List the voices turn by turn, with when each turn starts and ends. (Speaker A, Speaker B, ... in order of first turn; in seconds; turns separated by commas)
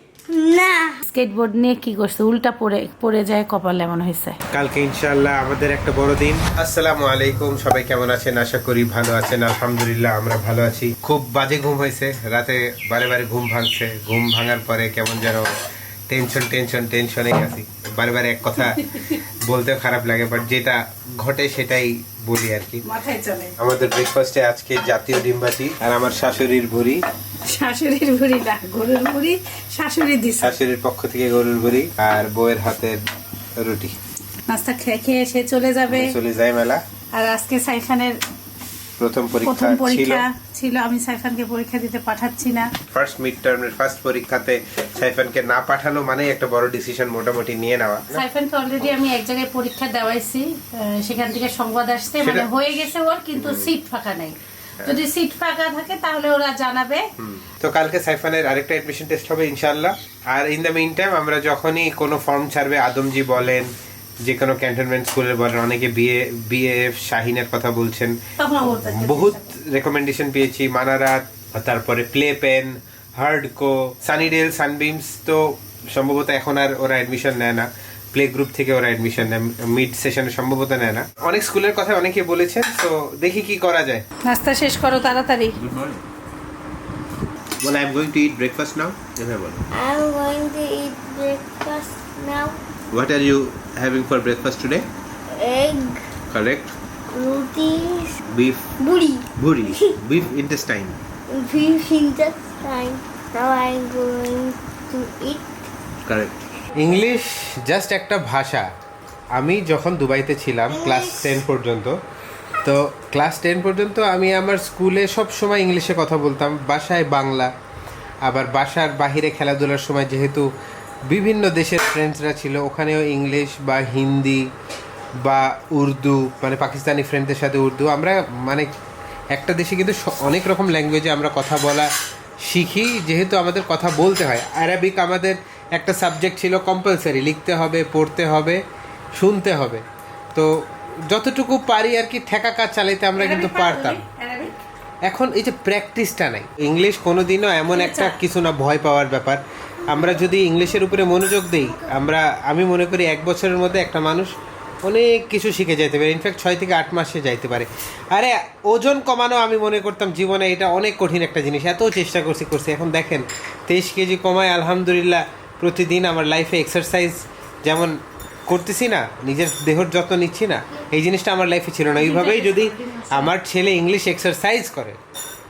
Speaker A: 0.3-1.0, Speaker B: 1.0-4.4, Speaker C: 4.5-15.5, Speaker C: 16.1-22.8, Speaker B: 18.6-19.0, Speaker B: 22.9-23.5, Speaker C: 23.6-27.0, Speaker B: 27.4-30.6, Speaker C: 30.4-33.0, Speaker C: 33.6-34.0, Speaker B: 34.5-36.2, Speaker C: 35.9-36.8, Speaker B: 37.1-38.2, Speaker C: 39.0-40.2, Speaker B: 39.4-42.7, Speaker C: 42.9-48.2, Speaker B: 48.1-57.0, Speaker C: 52.2-52.5, Speaker C: 53.4-53.7, Speaker C: 57.2-63.7, Speaker C: 64.2-68.2, Speaker B: 68.4-69.5, Speaker C: 68.7-84.0, Speaker B: 84.2-85.6, Speaker C: 85.7-86.0, Speaker C: 87.6-89.6, Speaker A: 89.7-92.6, Speaker C: 92.9-94.9, Speaker A: 95.3-96.0, Speaker C: 96.3-96.7, Speaker A: 97.1-98.2, Speaker C: 98.3-98.7, Speaker A: 98.8-99.9, Speaker C: 99.4-101.0, Speaker A: 101.3-105.5, Speaker C: 106.1-108.7, Speaker C: 109.4-112.0, Speaker A: 110.8-111.4, Speaker C: 112.6-117.5, Speaker C: 118.2-120.5, Speaker C: 121.1-124.5, Speaker C: 125.2-128.7, Speaker C: 129.3-131.9, Speaker C: 132.5-138.6, Speaker C: 139.2-140.5, Speaker C: 141.1-144.0, Speaker B: 143.2-144.6, Speaker C: 145.1-154.3, Speaker B: 147.7-148.2, Speaker C: 154.8-168.0, Speaker C: 168.5-175.0, Speaker B: 171.9-173.3